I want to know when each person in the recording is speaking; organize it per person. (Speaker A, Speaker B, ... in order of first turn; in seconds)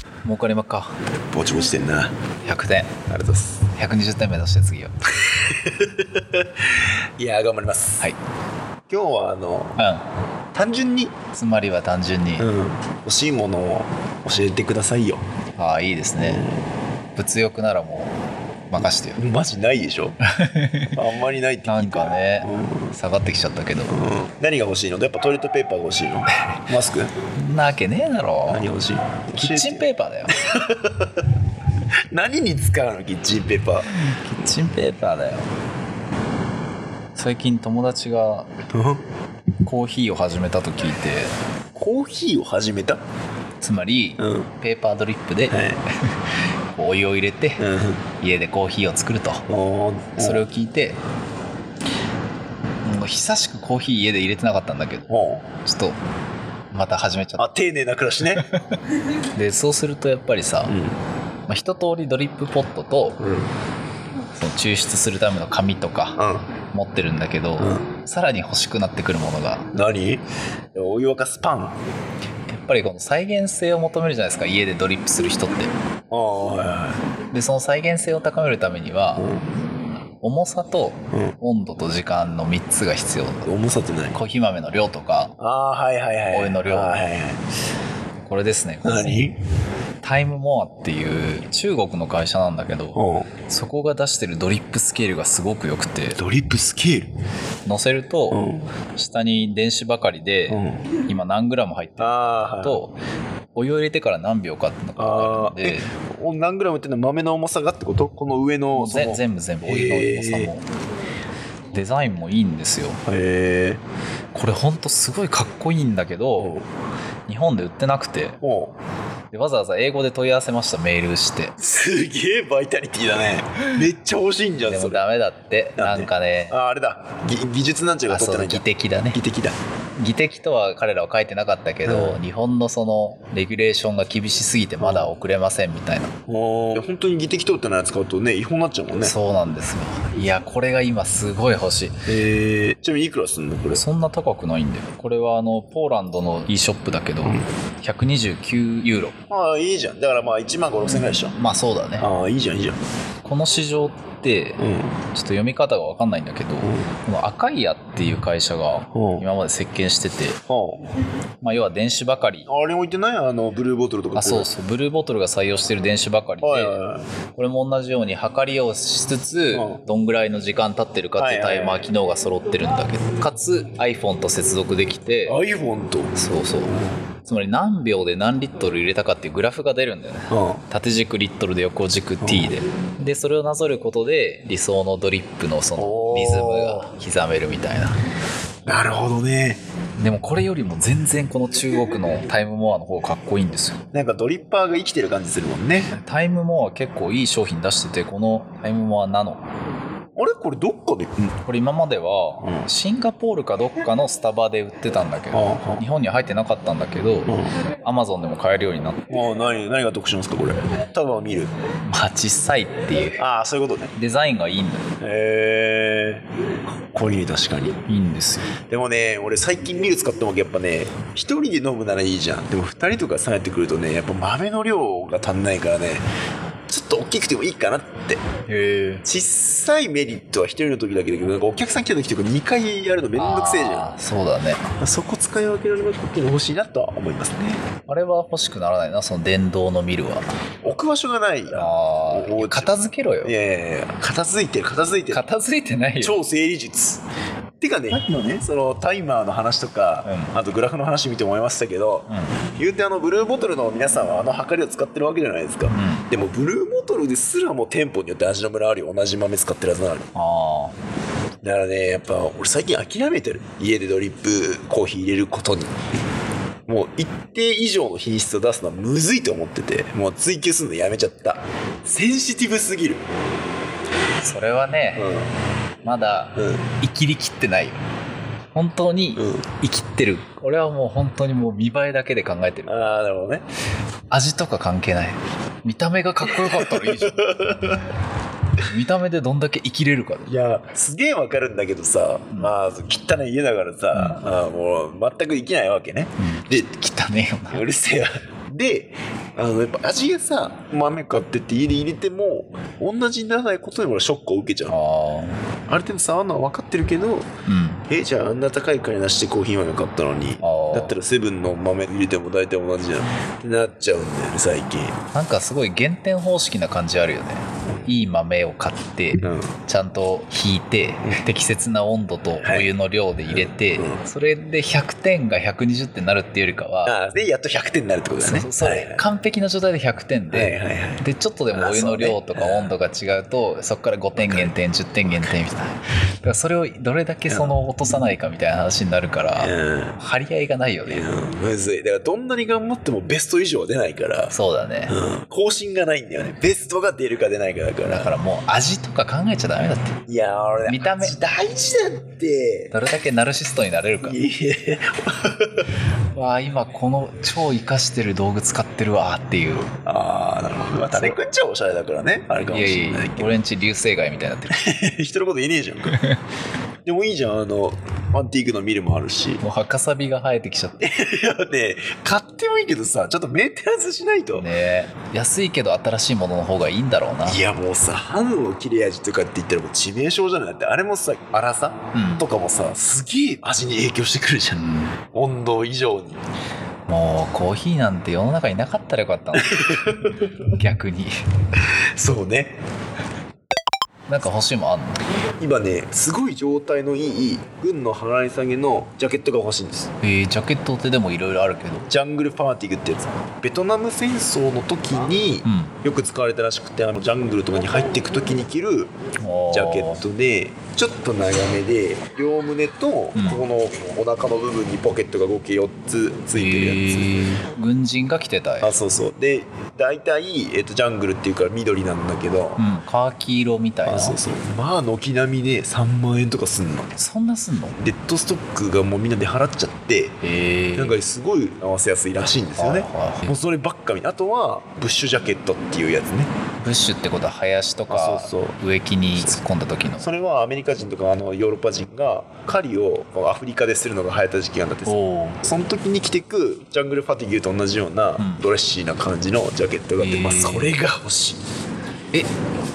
Speaker A: 0.2-0.9, 2.4-3.0, 3.7-4.9, 9.8-10.1, 11.3-12.5, 15.6-16.4, 17.1-18.1, 18.7-19.2, 20.2-21.0, 21.6-24.0, 27.3-28.6, 29.4-30.4, 33.9-35.5, 37.1-38.5, 39.6-41.3, 43.6-46.1, 46.7-47.6, 48.2-49.4, 50.2-51.0, 52.8-55.1, 55.6-56.0, 56.7-57.5, 58.4-60.7, 61.5-63.2, 64.3-66.2, 66.7-69.7, 72.5-75.7, 77.3-79.3, 80.2-83.5, 84.1-85.3, 86.3-87.0, 88.2-89.2, 90.0-96.2, 97.7-98.4, 99.0-102.9, 103.5-105.9, 108.7-110.6, 111.7-113.0, 114.3-116.5, 117.3-118.4, 119.3-121.5, 124.6-126.5, 128.1-129.2, 130.0-136.1, 139.0-142.1, 143.7-149.2, 151.3-152.1, 153.2-154.6, 155.1-160.4, 161.4-162.5, 164.1-166.8, 167.3-175.4, 176.1-188.0, 190.0-193.8, 195.9-199.4, 201.4-209.0, 211.9-213.2, 213.9-214.8, 217.9-218.5, 228.5-229.0, 233.2-234.6, 237.9-240.3, 241.5-243.3, 245.1-246.2, 250.0-250.3, 252.1-252.4, 255.7-256.1, 260.1-260.7, 274.2-275.1, 275.8-277.8, 278.5-283.0, 284.1-287.9, 288.6-290.3, 293.9-294.2, 296.2-297.6, 304.7-305.4, 307.5-307.8, 310.4-310.9, 315.1-326.9, 328.2-341.1, 344.3-344.9, 347.8-350.0, 350.6-351.1, 352.7-354.2, 356.1-359.7, 362.5-364.7, 369.4-370.8, 374.3-377.4, 381.9-382.3, 384.5-384.9, 386.9-389.8, 390.5-391.1, 394.1-395.0, 400.0-401.9, 405.4-405.7, 409.2-410.0, 413.1-413.4, 416.3-418.7, 422.6-424.2, 427.0-427.8, 430.2-431.0, 432.6-433.3, 436.6-440.1, 444.9-445.4, 448.2-448.4, 450.0-450.7
Speaker B: 1.3-2.1, 3.1-3.6, 5.3-8.1, 8.9-9.8, 10.5-11.1, 12.4-15.2, 16.2-16.6, 19.1-20.2, 20.9-22.9, 23.9-27.1, 28.5-29.9, 30.4-31.2, 32.1-33.9, 38.7-39.0, 41.7-43.0, 44.2-44.5, 45.5-45.8, 47.6-48.0, 49.5-50.5, 55.1-55.5, 57.4-58.5, 60.7-61.0, 63.2-63.5, 66.2-66.5, 67.6-67.8, 69.7-70.2, 70.7-71.8, 76.1-77.0, 79.2-79.5, 83.4-84.2, 85.4-87.4, 88.8-89.4, 92.9-93.3, 96.2-97.1, 98.3-98.7, 100.5-100.9, 102.0-102.8, 105.0-110.5, 113.1-113.8, 116.4-116.6, 118.4-118.8, 121.6-125.0, 125.8-129.6, 131.8-132.2, 134.8-135.1, 136.3-139.2, 142.1-143.8, 149.3-151.3, 152.0-152.8, 154.6-154.9, 156.6-156.9, 158.9-159.2, 160.5-160.8, 162.5-164.5, 166.4-167.1, 169.5-169.8, 171.2-171.8, 175.3-176.2, 180.3-180.6, 182.2-182.5, 185.8-186.9, 188.7-189.6, 193.9-195.9, 200.2-201.3, 202.4-202.7, 205.3-205.8, 207.3-207.5, 209.1-211.5, 213.2-213.9, 215.0-216.2, 216.9-217.8, 218.7-226.0, 226.7-228.2, 229.0-233.9, 234.8-237.7, 240.6-245.2, 246.0-247.0, 247.6-260.1, 261.4-265.7, 266.7-273.0, 274.9-275.3, 276.4-276.6, 279.1-279.4, 282.6-283.4, 286.2-287.8, 290.3-296.6, 297.5-304.7, 305.7-307.3, 307.9-314.9, 319.2-319.6, 322.4-322.7, 323.3-324.0, 326.9-329.0, 330.3-332.8, 334.2-334.5, 337.3-337.6, 339.4-339.9, 340.9-344.3, 344.9-348.1, 350.1-352.7, 354.0-355.6, 359.8-363.4, 364.5-366.0, 366.8-369.4, 370.8-374.5, 377.2-386.2, 389.4-390.3, 391.9-392.6, 395.4-399.9, 401.9-408.9, 409.5-417.2, 418.6-422.6, 423.9-426.9, 427.7-430.2, 430.8-436.3, 437.9-438.6, 440.0-451.4